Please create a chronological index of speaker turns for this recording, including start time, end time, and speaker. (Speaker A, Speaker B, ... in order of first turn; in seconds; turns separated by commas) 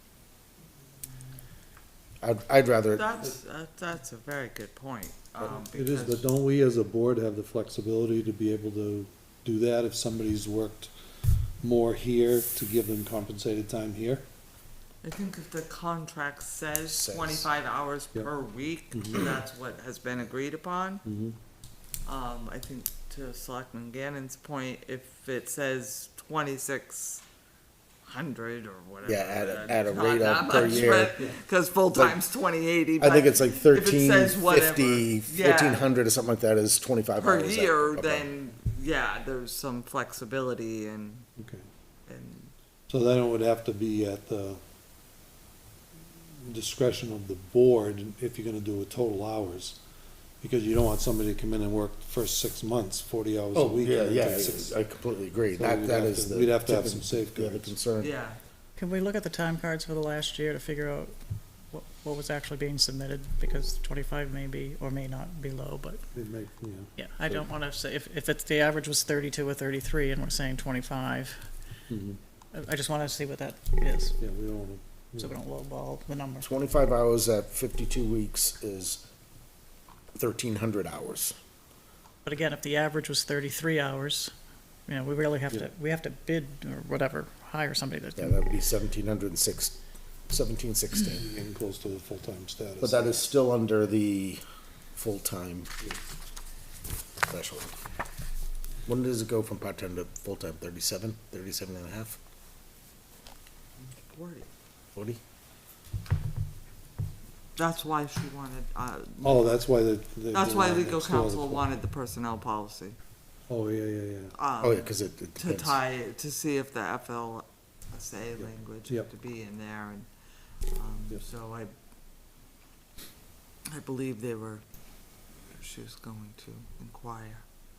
Speaker A: 2.2-3.0, Speaker B: 2.9-6.2, Speaker C: 5.4-10.9, Speaker C: 11.6-14.2, Speaker B: 15.0-21.0, Speaker A: 16.9-17.5, Speaker C: 18.9-19.3, Speaker C: 21.1-21.4, Speaker B: 22.1-27.2, Speaker B: 28.0-35.9, Speaker A: 29.1-31.2, Speaker A: 31.9-32.2, Speaker A: 33.0-38.3, Speaker B: 37.2-41.3, Speaker C: 41.4-41.7, Speaker B: 42.1-42.5, Speaker C: 42.9-44.6, Speaker C: 46.4-49.8, Speaker C: 50.4-54.8, Speaker A: 53.5-58.1, Speaker C: 55.5-57.8, Speaker B: 58.0-58.4, Speaker D: 58.8-61.1, Speaker D: 61.7-66.0, Speaker C: 66.1-67.5, Speaker D: 67.0-71.5, Speaker C: 71.9-72.2, Speaker D: 72.5-74.2, Speaker C: 74.2-75.3, Speaker D: 75.2-76.5, Speaker A: 76.4-79.0, Speaker A: 80.2-81.3, Speaker D: 82.3-84.3, Speaker D: 84.9-88.4, Speaker A: 88.2-89.8, Speaker A: 90.3-91.3, Speaker C: 91.2-93.3, Speaker A: 92.8-94.4, Speaker A: 95.0-95.7, Speaker A: 97.3-97.8, Speaker A: 98.9-102.2, Speaker B: 104.1-104.5, Speaker A: 105.0-105.2, Speaker B: 107.6-109.6, Speaker C: 109.2-111.7, Speaker B: 110.3-113.0, Speaker C: 113.5-114.3, Speaker B: 114.3-120.1, Speaker A: 114.6-115.8, Speaker C: 118.4-119.1, Speaker B: 120.7-121.7, Speaker B: 123.7-124.6, Speaker B: 125.5-127.5